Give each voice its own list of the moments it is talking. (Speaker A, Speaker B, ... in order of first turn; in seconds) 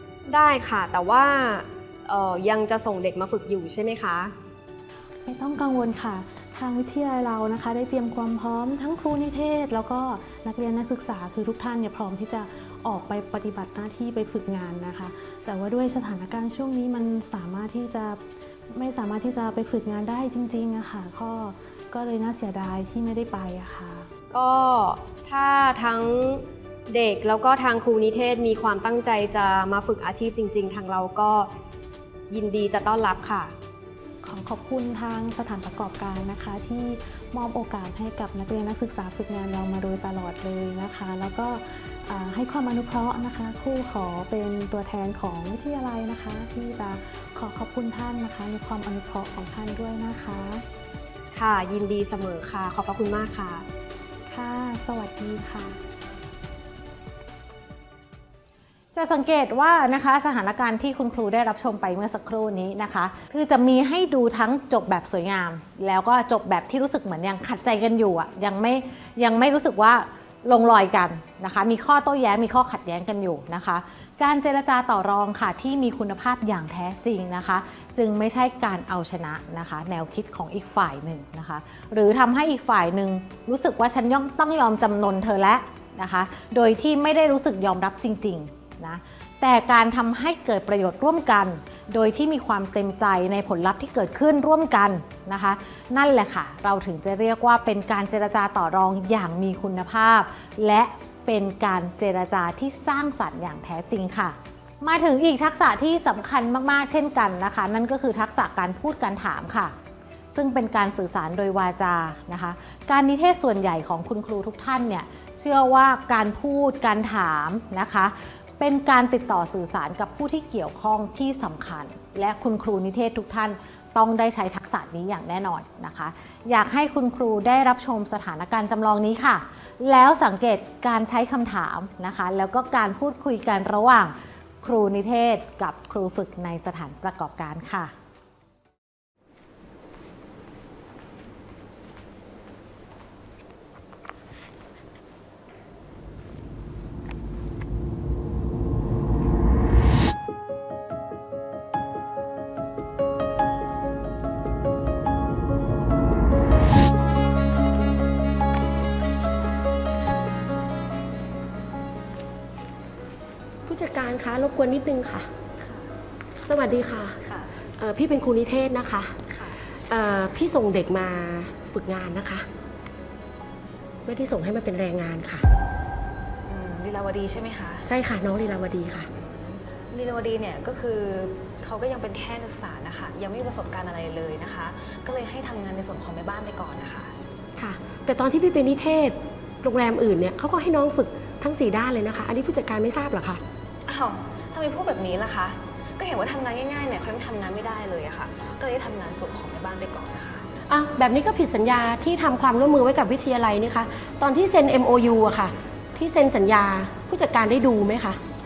Speaker A: 0.3-4.3, 24.3-31.5, 32.3-33.5, 51.3-53.7
Speaker B: 5.2-24.1, 34.2-50.6, 54.3-55.8
Speaker C: 58.9-109.7, 110.3-137.9
Speaker D: 163.7-165.3, 166.4-172.5, 174.1-175.5, 177.9-179.1, 187.6-193.4, 200.7-208.2
Speaker E: 165.6-165.9, 167.2-167.6, 169.3-169.6, 176.5-177.9, 179.2-187.1, 193.9-200.5